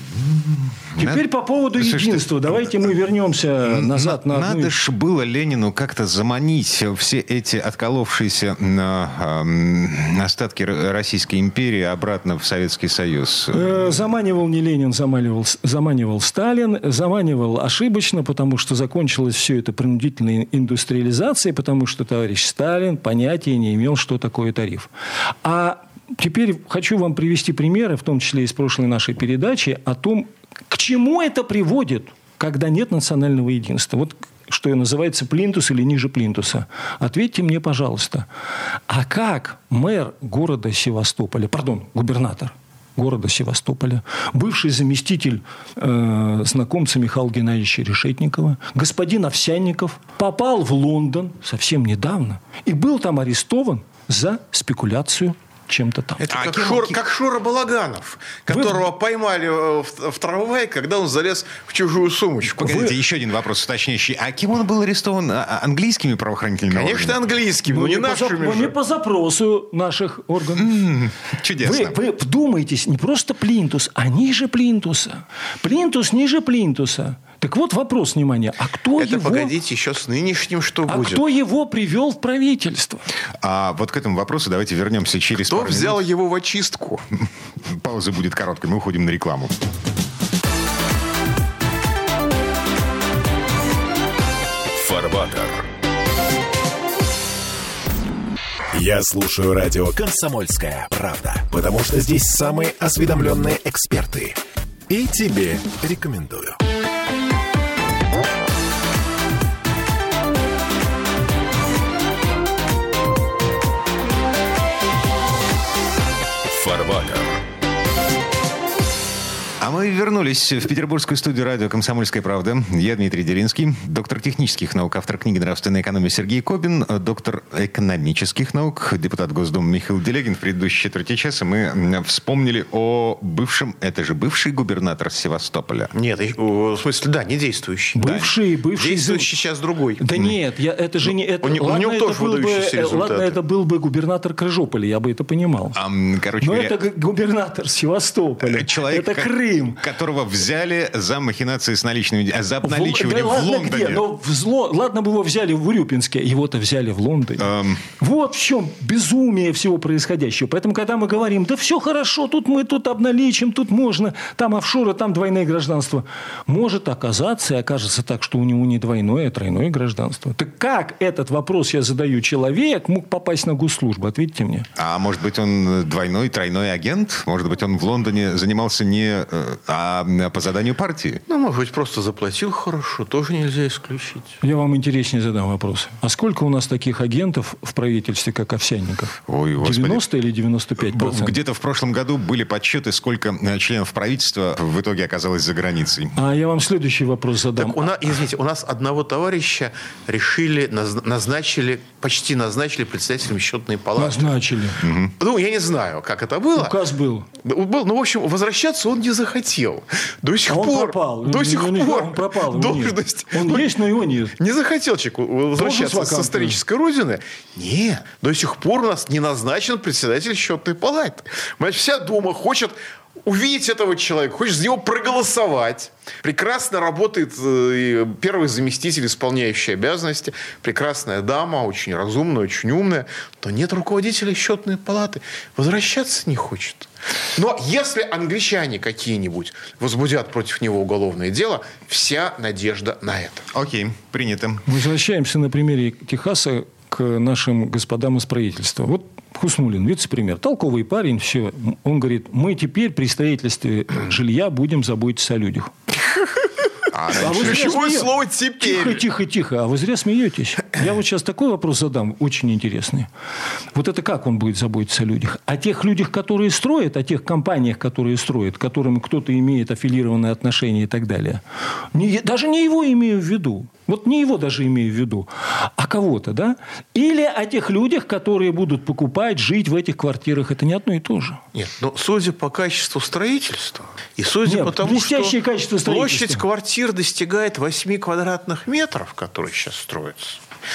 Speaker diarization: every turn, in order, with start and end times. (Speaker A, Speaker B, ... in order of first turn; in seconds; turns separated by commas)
Speaker A: 0.1-2.7, Speaker B: 1.0-4.8, Speaker A: 3.6-13.9, Speaker B: 13.5-24.9, Speaker B: 25.4-38.3, Speaker B: 38.9-56.2, Speaker C: 56.2-62.8, Speaker A: 56.3-57.0, Speaker B: 58.5-58.8, Speaker A: 62.5-67.2, Speaker B: 62.6-62.9, Speaker C: 66.7-68.8, Speaker B: 67.7-70.8, Speaker A: 70.5-72.0, Speaker B: 71.6-79.5, Speaker C: 79.0-81.2, Speaker B: 80.9-83.0, Speaker A: 83.4-86.0, Speaker C: 85.4-87.0, Speaker A: 87.6-89.5, Speaker D: 94.7-95.7, Speaker D: 98.7-106.6, Speaker D: 116.5-117.4, Speaker A: 119.6-135.9, Speaker C: 135.9-138.1, Speaker B: 137.9-139.3, Speaker A: 138.0-138.3, Speaker C: 138.7-140.1, Speaker B: 140.0-145.8, Speaker C: 141.4-143.4, Speaker A: 145.7-146.8, Speaker B: 146.4-149.8, Speaker A: 148.4-154.0, Speaker B: 152.6-174.7, Speaker A: 157.4-157.8, Speaker A: 174.8-181.2, Speaker C: 181.3-184.4, Speaker B: 184.4-191.3, Speaker A: 189.3-190.0, Speaker A: 190.8-196.2, Speaker B: 196.1-197.9, Speaker C: 197.6-204.4, Speaker B: 204.0-204.8, Speaker A: 204.8-205.1, Speaker C: 205.2-206.8, Speaker B: 206.6-207.3, Speaker C: 207.4-213.7, Speaker B: 210.5-214.3, Speaker C: 214.4-243.5, Speaker B: 215.5-216.6, Speaker A: 243.5-244.7, Speaker B: 244.7-255.7, Speaker C: 256.0-259.0, Speaker A: 257.0-257.7, Speaker B: 257.1-263.1, Speaker B: 263.7-281.4, Speaker C: 281.5-290.4, Speaker B: 284.4-286.4